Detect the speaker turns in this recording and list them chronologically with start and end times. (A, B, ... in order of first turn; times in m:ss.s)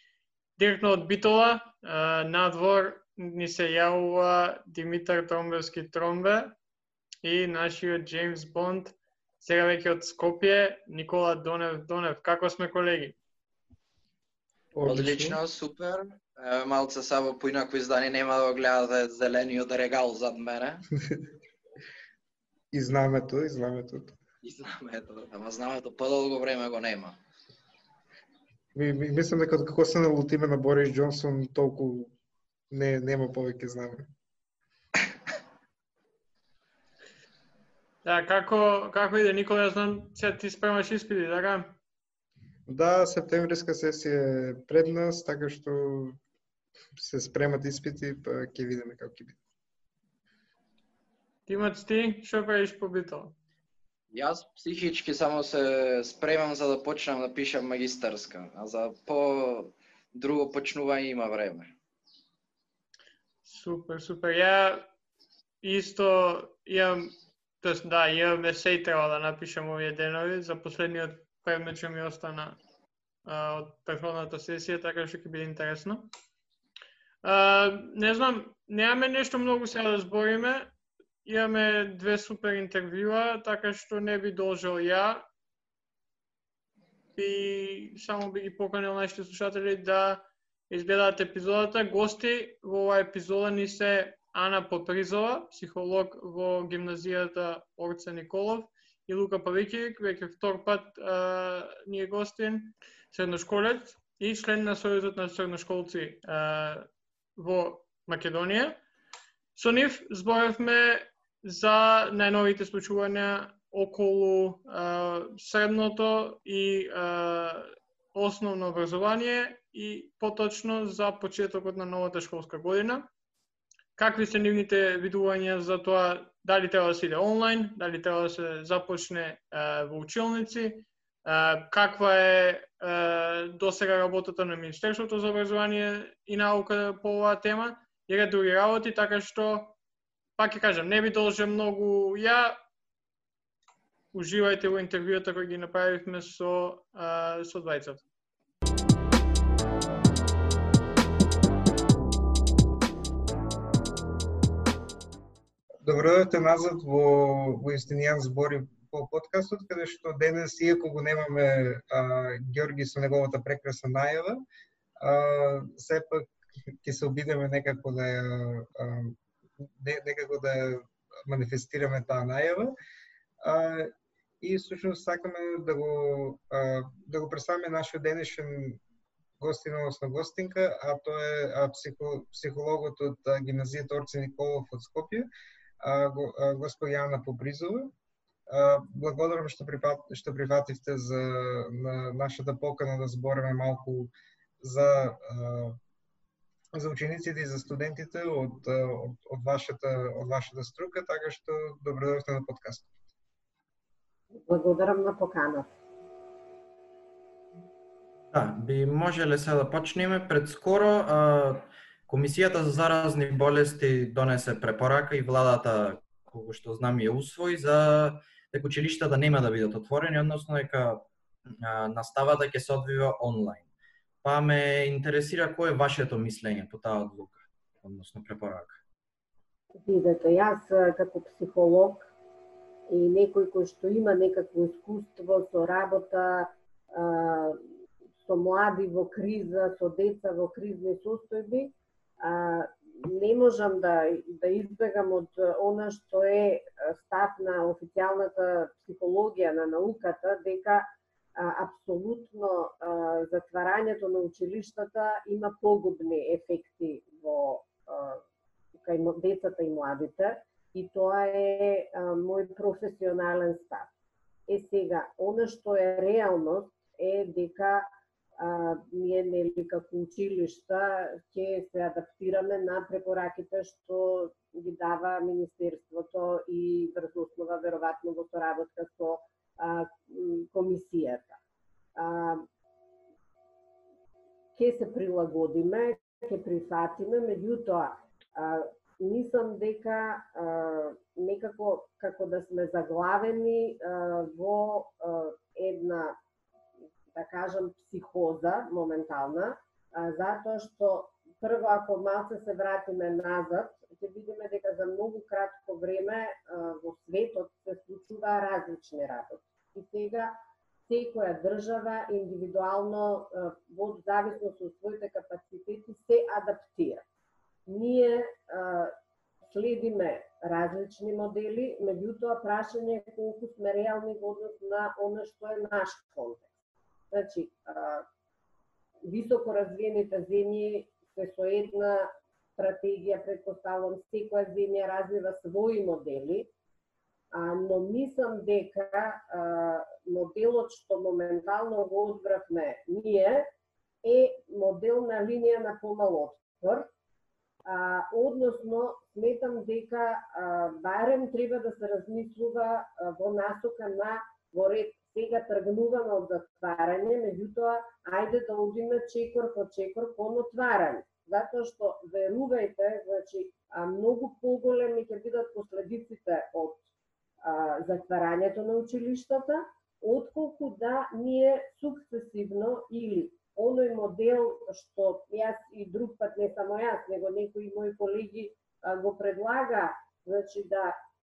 0:00.6-0:06.5 A
0:07.2-0:13.1 A
0:14.7-0:15.4 B
0:14.8-0:20.8 C
0:22.7-0:24.2 B
0:24.4-0:27.1 C
0:28.7-0:32.1 B
0:32.7-0:34.1 B
0:38.0-0:41.7 A
0:42.7-0:46.2 B
0:46.9-0:49.4 B
0:51.5-0:53.3 A
0:54.1-1:01.7 C
1:03.4-1:04.9 A
1:05.6-1:07.1 A
1:07.6-1:12.6 A
1:13.2-1:16.1 A
1:17.2-1:20.7 A
1:21.2-1:25.2 A
1:27.2-1:48.8 A
1:49.6-2:03.1 A
2:04.0-2:19.7 A
2:20.4-2:22.6 A
2:24.1-2:28.0 A
2:35.8-2:44.4 B
2:45.0-2:46.3 B
2:46.8-2:52.7 B
2:53.4-2:58.8 B
2:59.4-3:05.3 B
3:05.8-3:07.9 B
3:08.5-3:15.8 B
3:16.7-3:22.9 B
3:24.3-3:25.8 D
3:28.3-3:43.6 E
3:44.2-3:48.8 E
3:49.8-3:52.1 D
3:52.9-3:57.6 D
3:58.2-4:18.2 D
4:18.8-4:23.9 D
4:24.5-4:41.4 D
4:42.0-4:42.4 D
4:44.6-4:56.2 D
4:57.1-5:17.0 D
5:17.7-5:18.9 D
5:19.4-5:26.5 D
5:27.1-5:28.0 D
5:29.0-5:36.5 D
5:37.3-5:43.5 D
5:44.0-5:46.9 D
5:47.6-6:06.8 D
6:07.4-6:21.0 D